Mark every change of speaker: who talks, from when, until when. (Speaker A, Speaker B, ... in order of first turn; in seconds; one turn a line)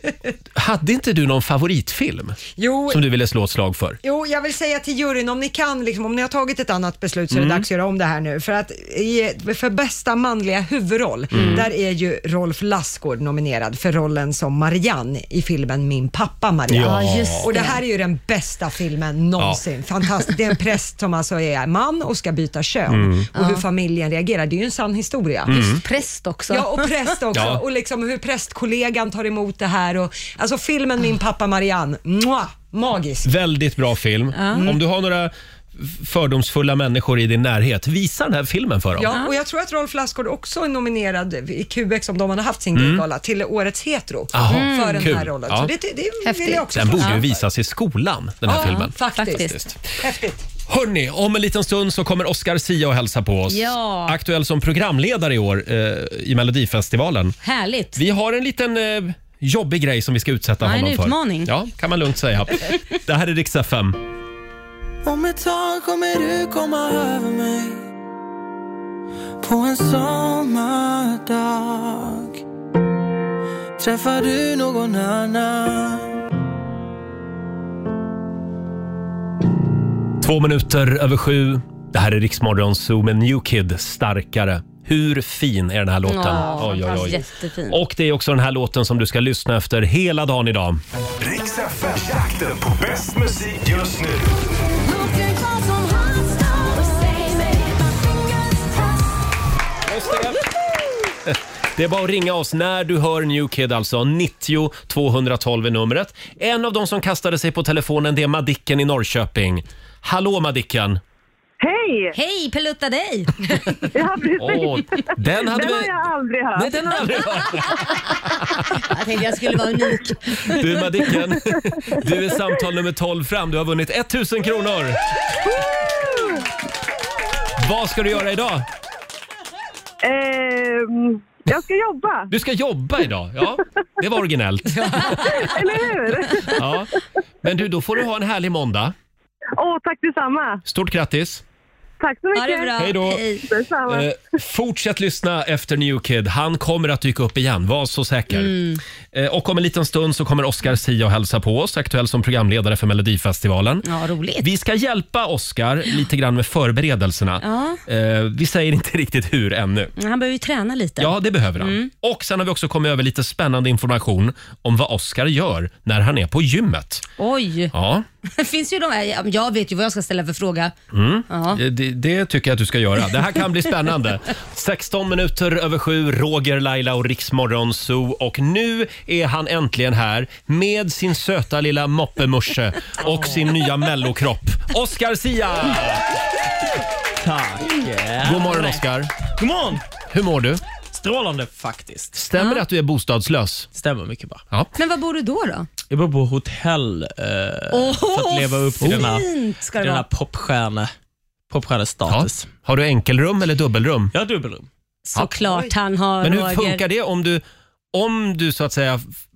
Speaker A: 0.5-4.0
Speaker B: 2.6-3.0
Speaker B: 4.0-25.7
Speaker A: 7.3-7.7
Speaker A: 11.3-11.7
Speaker C: 11.3-11.7
Speaker A: 16.7-17.5
Speaker C: 16.7-17.8
Speaker A: 22.9-23.3
Speaker C: 23.3-23.6
Speaker A: 25.4-25.8
Speaker C: 25.5-27.1
Speaker B: 26.5-33.3
Speaker A: 27.3-27.6
Speaker A: 33.2-39.1
Speaker C: 34.3-34.7
Speaker B: 34.5-34.8
Speaker B: 39.0-47.4
Speaker A: 42.7-43.0
Speaker A: 44.3-45.7
Speaker C: 44.5-45.1
Speaker C: 46.2-47.2
Speaker A: 46.7-49.8
Speaker B: 48.5-50.4
Speaker C: 48.5-49.5
Speaker A: 50.7-57.4
Speaker C: 53.5-54.2
Speaker C: 57.4-58.0
Speaker A: 58.0-64.0
Speaker C: 60.6-61.5
Speaker D: 65.0-67.9
Speaker D: 69.4-72.4
Speaker D: 73.8-76.2
Speaker A: 80.2-90.8
Speaker C: 86.0-87.8
Speaker E: 91.2-94.3
Speaker D: 94.8-97.5
Speaker D: 98.1-98.8
Speaker A: 99.9-100.5
Speaker A: 101.2-111.0
Speaker F: 111.6-112.2
Speaker C: 112.1-113.8
Speaker F: 113.9-117.1
Speaker A: 114.4-116.0
Speaker A: 116.5-118.8
Speaker C: 118.7-120.6
Speaker A: 120.4-125.0
Speaker F: 125.5-126.4
Speaker A: 127.6-128.7
Speaker F: 130.0-132.3
Speaker A: 132.3-135.6
Speaker B: 134.8-135.3
Speaker F: 135.1-136.7
Speaker A: 136.5-136.9
Speaker A: 137.4-138.9
Speaker F: 139.6-140.6
Speaker A: 140.6-141.4
Speaker F: 142.0-142.9
Speaker C: 142.3-143.4
Speaker A: 142.8-143.2
Speaker F: 143.4-144.1
Speaker A: 143.8-148.6
Speaker C: 148.3-148.8
Speaker A: 149.1-153.9
Speaker C: 153.8-154.5
Speaker A: 154.4-159.9
Speaker C: 157.4-157.8
Speaker C: 160.0-161.9
Speaker A: 161.0-167.0
Speaker C: 167.2-167.7
Speaker A: 167.7-168.0
Speaker C: 168.2-170.7
Speaker A: 170.9-186.1
Speaker C: 171.3-171.6
Speaker G: 183.0-183.5
Speaker G: 187.2-188.8
Speaker A: 188.2-189.1
Speaker G: 189.4-189.8
Speaker A: 190.1-190.6
Speaker G: 190.9-192.2
Speaker A: 192.2-193.7
Speaker C: 192.4-192.6
Speaker G: 193.7-194.4
Speaker C: 194.8-195.7
Speaker G: 195.9-199.3
Speaker C: 197.7-200.0
Speaker A: 198.8-199.1
Speaker G: 199.8-200.9
Speaker G: 201.5-202.5
Speaker A: 202.1-204.1
Speaker G: 204.1-204.7
Speaker C: 205.1-206.8
Speaker A: 206.2-209.0